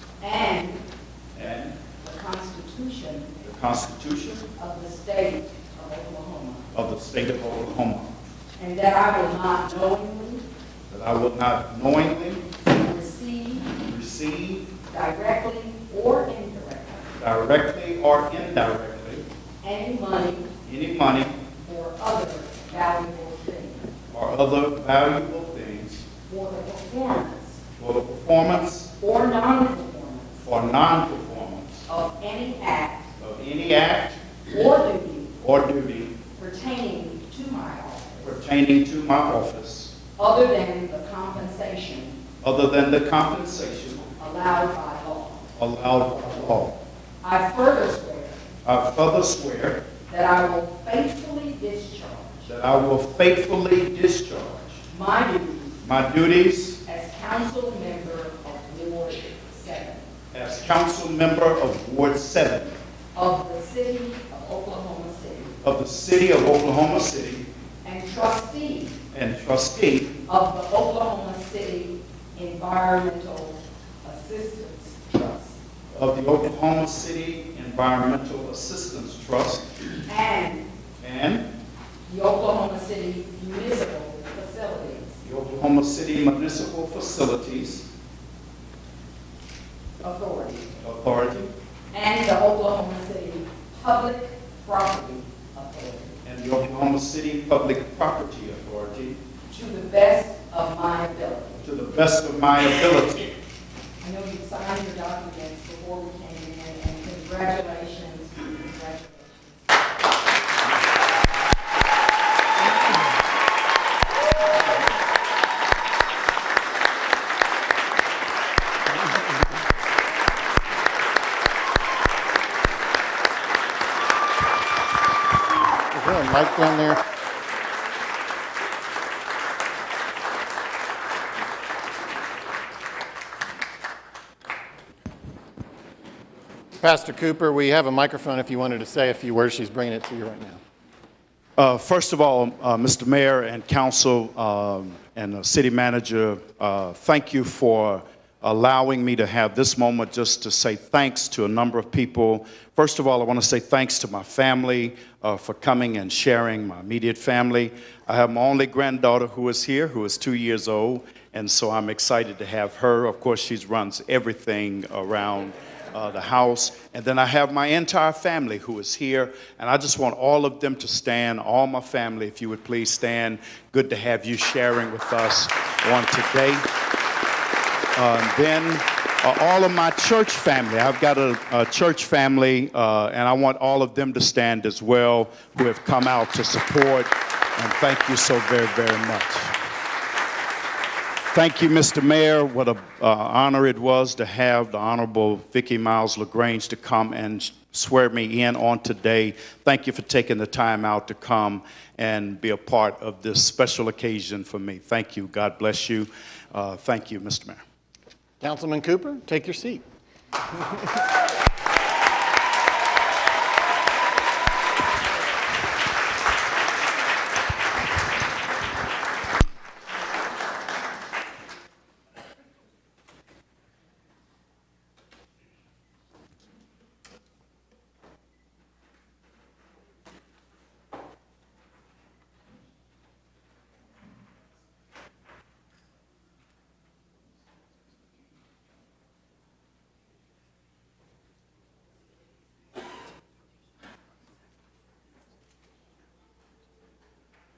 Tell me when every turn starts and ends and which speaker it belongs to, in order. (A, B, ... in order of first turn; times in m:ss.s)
0:00.2-0:00.8 A
0:01.3-0:01.8 B
0:02.0-0:03.4 A
0:03.4-0:04.5 B
0:04.5-0:06.7 A
0:06.7-0:08.1 B
0:08.6-0:10.5 A
0:10.9-0:12.4 B
0:12.6-0:13.7 A
0:13.8-0:14.7 B
0:14.9-0:17.1 A
0:17.2-0:19.2 B
0:19.6-0:20.5 A
0:20.6-0:21.4 B
0:21.5-0:23.9 A
0:24.1-0:26.0 B
0:26.2-0:27.6 A
0:27.8-0:28.9 B
0:29.0-0:30.4 A
0:30.4-0:31.8 B
0:31.9-0:33.1 A
0:33.2-0:34.2 B
0:34.4-0:35.4 A
0:35.4-0:36.2 B
0:36.3-0:38.4 A
0:38.2-0:39.9 B
0:40.2-0:42.2 A
0:42.4-0:44.1 B
0:44.2-0:45.5 A
0:45.6-0:46.8 B
0:47.2-0:48.4 A
0:48.6-0:49.8 B
0:50.1-0:52.5 A
0:52.4-0:54.8 B
0:54.9-0:55.8 A
0:55.8-0:56.8 B
0:56.8-1:00.1 A
1:00.3-1:02.8 B
1:03.1-1:05.5 A
1:05.6-1:07.4 B
1:07.8-1:09.0 A
1:09.1-1:10.2 B
1:10.3-1:15.6 A
1:15.9-1:19.7 B
1:20.1-1:20.7 A
1:21.0-1:21.5 B
1:22.0-1:25.2 A
1:25.2-1:27.9 B
1:30.0-1:30.8 A
1:30.8-1:31.5 B
1:31.9-1:36.2 A
1:36.2-1:39.2 B
1:39.5-1:41.6 A
1:41.6-1:43.3 B
1:44.0-1:49.6 A
2:05.9-2:07.0 C
2:16.8-2:20.6 C
2:21.6-2:56.7 B
2:58.0-3:09.5 B
3:11.3-3:27.6 B
3:28.4-3:29.8 C